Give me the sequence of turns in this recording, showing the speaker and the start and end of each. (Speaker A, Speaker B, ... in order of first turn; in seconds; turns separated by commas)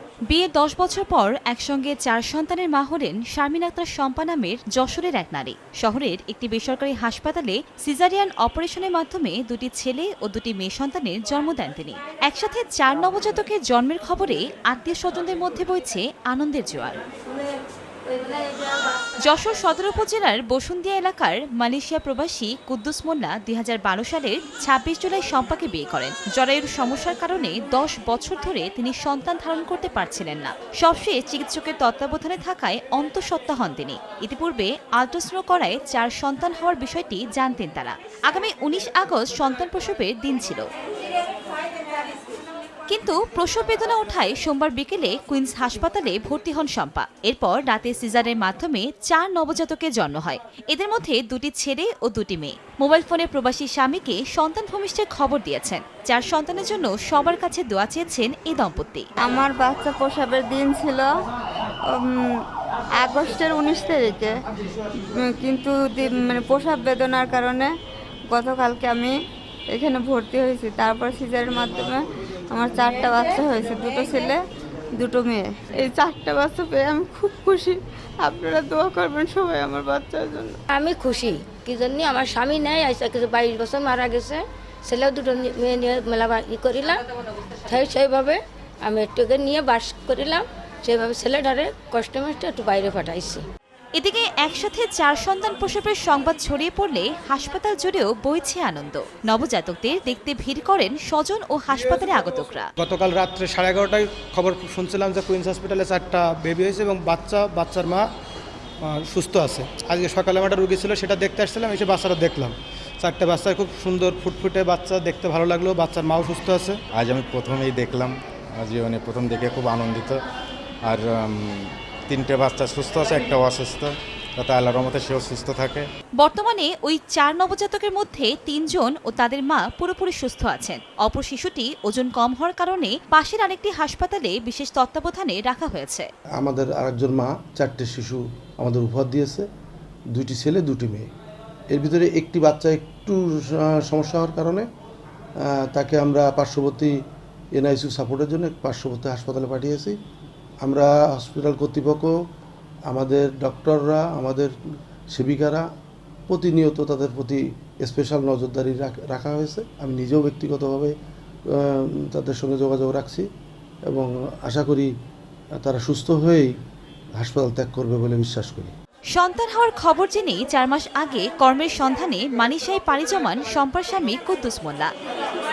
Speaker A: 0.3-17.0, Speaker A: 19.2-40.6, Speaker A: 42.9-59.1, Speaker B: 59.2-61.1, Speaker B: 61.9-62.2, Speaker B: 63.0-64.3, Speaker B: 65.1-67.7, Speaker B: 68.3-69.1, Speaker B: 69.7-74.4, Speaker B: 75.0-80.6, Speaker C: 80.7-87.0, Speaker C: 87.6-93.4, Speaker A: 94.0-102.7, Speaker D: 102.8-108.0, Speaker D: 108.8-116.8, Speaker E: 116.9-120.2, Speaker E: 120.8-125.9, Speaker A: 126.2-136.1, Speaker F: 136.4-139.4, Speaker F: 140.1-141.1, Speaker F: 141.7-144.7, Speaker F: 145.5-146.9, Speaker F: 147.5-150.0, Speaker F: 150.6-152.1, Speaker F: 152.9-154.5, Speaker F: 155.1-155.7, Speaker F: 156.3-160.9, Speaker F: 161.5-163.2, Speaker F: 163.9-164.9, Speaker F: 165.6-166.5, Speaker F: 167.2-168.7, Speaker A: 169.1-174.9